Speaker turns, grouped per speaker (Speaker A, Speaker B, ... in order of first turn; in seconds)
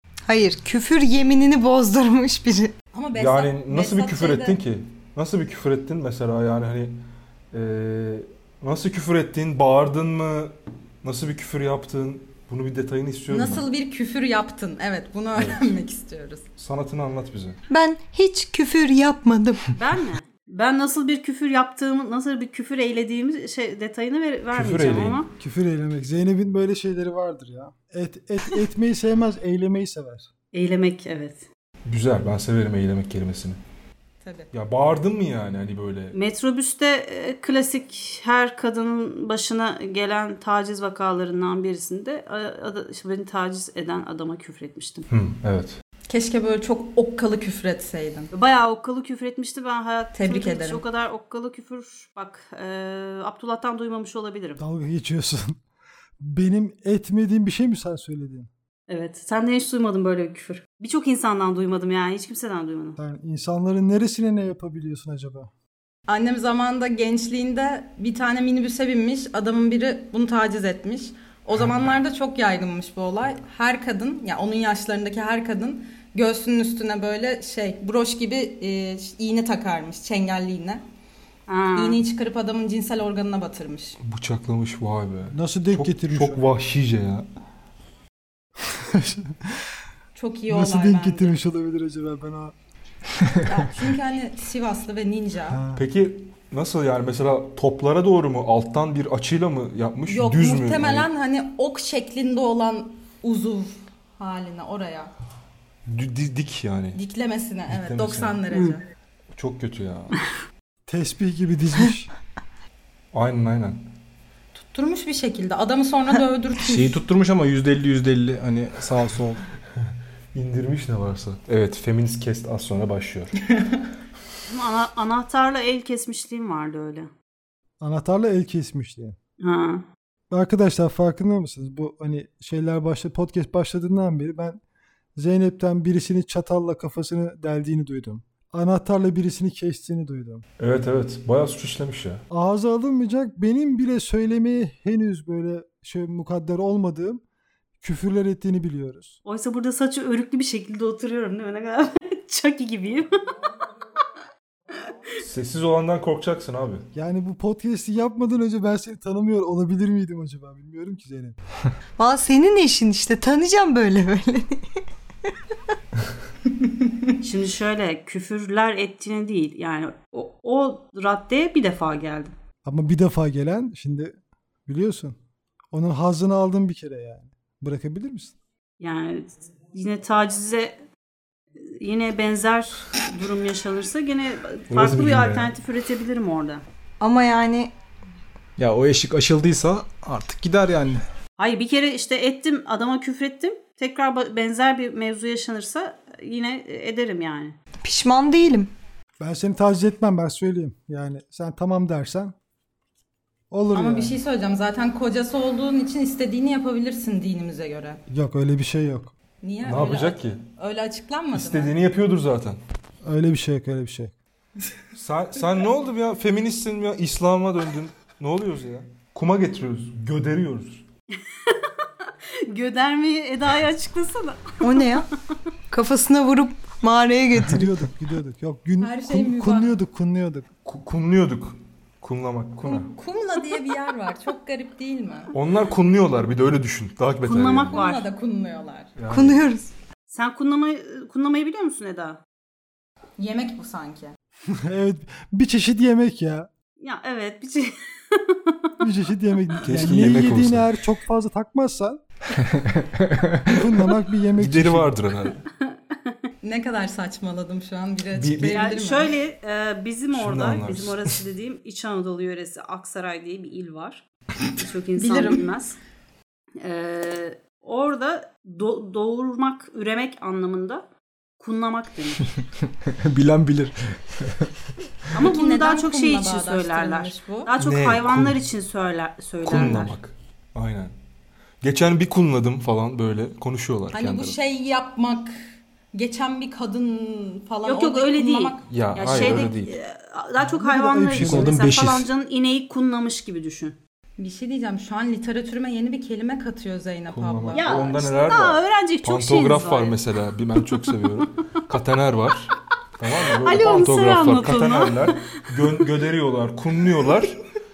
Speaker A: 0.2-2.7, 17.7-19.7, 162.0-164.8, 187.0-187.7, 197.8-198.7, 224.6-225.1, 225.7-227.7, 239.1-239.7
Speaker B: 2.9-4.6, 13.3-16.5, 34.2-34.5, 46.1-48.3, 50.1-50.8, 66.1-80.8, 81.8-84.0, 90.1-91.4, 93.4-95.6, 100.0-105.1, 106.9-108.8, 114.5-117.0, 203.7-208.0, 209.4-211.7, 228.8-229.8, 232.6-235.3, 237.7-238.9, 243.2-244.1, 256.4-259.1, 265.0-265.5, 275.1-277.5, 283.9-285.4, 285.9-289.4, 294.2-298.1
Speaker C: 3.1-7.0, 7.5-13.7, 15.3-15.7, 16.6-17.6, 24.5-25.2, 31.9-33.6, 34.5-36.1, 45.1-45.8, 84.0-87.3, 95.8-101.1, 105.8-107.0, 107.7-108.4, 109.3-110.2, 113.1-113.9, 120.3-123.3, 140.6-142.2, 155.2-156.9, 184.7-185.5, 209.6-210.4, 211.3-212.6, 214.9-220.8, 230.6-232.9, 235.3-237.8, 238.9-239.4, 249.6-250.7, 254.3-255.4, 258.1-258.6, 260.1-261.2, 277.5-278.4, 279.4-280.9, 281.6-284.4, 288.7-289.7, 297.1-307.4
Speaker D: 19.8-25.3, 30.5-31.5, 36.1-45.1, 48.3-54.6, 58.9-63.0, 81.5-82.0, 124.5-127.1, 129.4-129.8, 149.2-153.2, 167.2-172.3, 178.8-180.8, 181.6-186.6, 191.4-197.6, 221.3-224.6, 237.2-238.1, 240.1-242.2, 246.8-248.7, 255.6-256.1, 258.4-265.8, 266.6-270.8, 271.4-272.2, 275.1-280.0, 287.6-293.8, 297.5-300.0, 300.6-301.2, 303.4-305.2
Speaker E: 25.4-30.3, 54.6-55.6, 56.2-58.5, 63.0-65.5, 85.3-86.4, 88.7-89.5, 90.5-92.5, 95.5-95.8, 110.9-112.1, 127.8-129.2, 130.3-134.6, 135.2-140.4, 142.3-147.2, 147.8-149.2, 156.9-161.4, 172.6-175.2, 175.7-178.3, 199.2-202.3, 203.5-204.2, 208.1-209.1, 213.0-214.1, 227.4-230.5, 244.5-246.5, 248.8-252.0, 253.5-255.0, 290.6-291.7
Speaker F: 116.6-119.4, 188.6-191.0, 252.4-253.5, 272.6-274.5, 291.1-292.1